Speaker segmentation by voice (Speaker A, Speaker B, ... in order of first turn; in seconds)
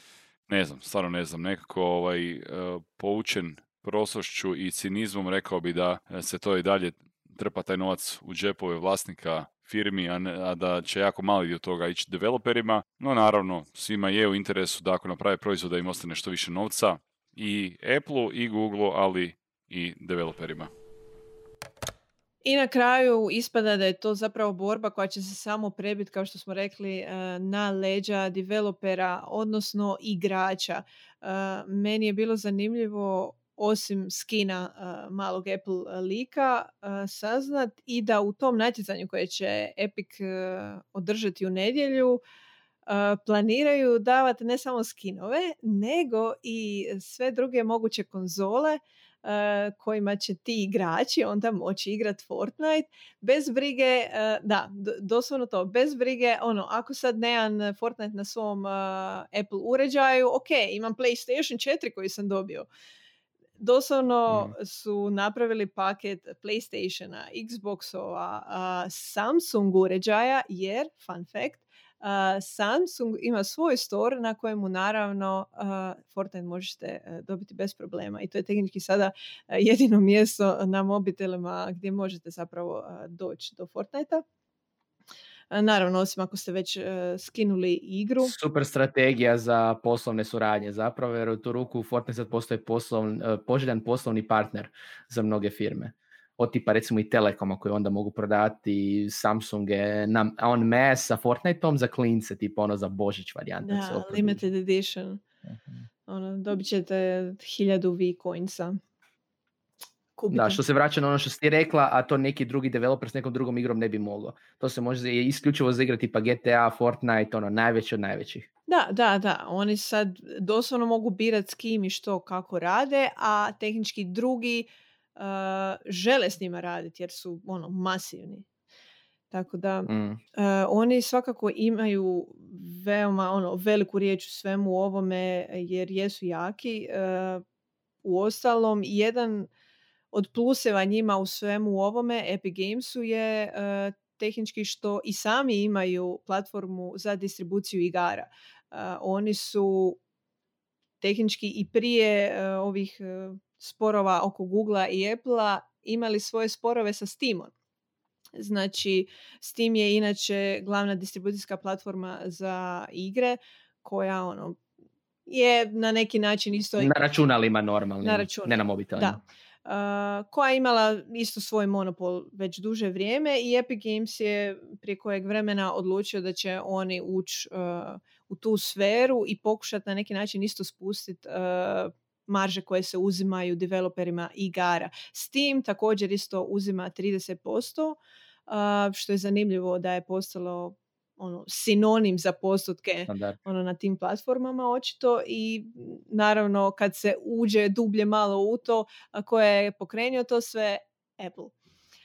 Speaker A: 0.5-20.7
Speaker B: 22.4-42.2, 42.9-62.7, 63.6-84.2, 85.5-88.3, 103.6-105.2, 106.1-108.8, 110.2-110.6, 118.7-128.4, 129.3-137.4, 138.0-139.5, 140.1-150.0, 151.0-157.5, 158.3-164.6, 165.3-166.9, 168.0-201.5
Speaker C: 64.3-64.5, 88.2-104.4, 105.5-105.8, 110.3-118.5, 129.9-130.2, 166.8-169.2, 193.1-193.4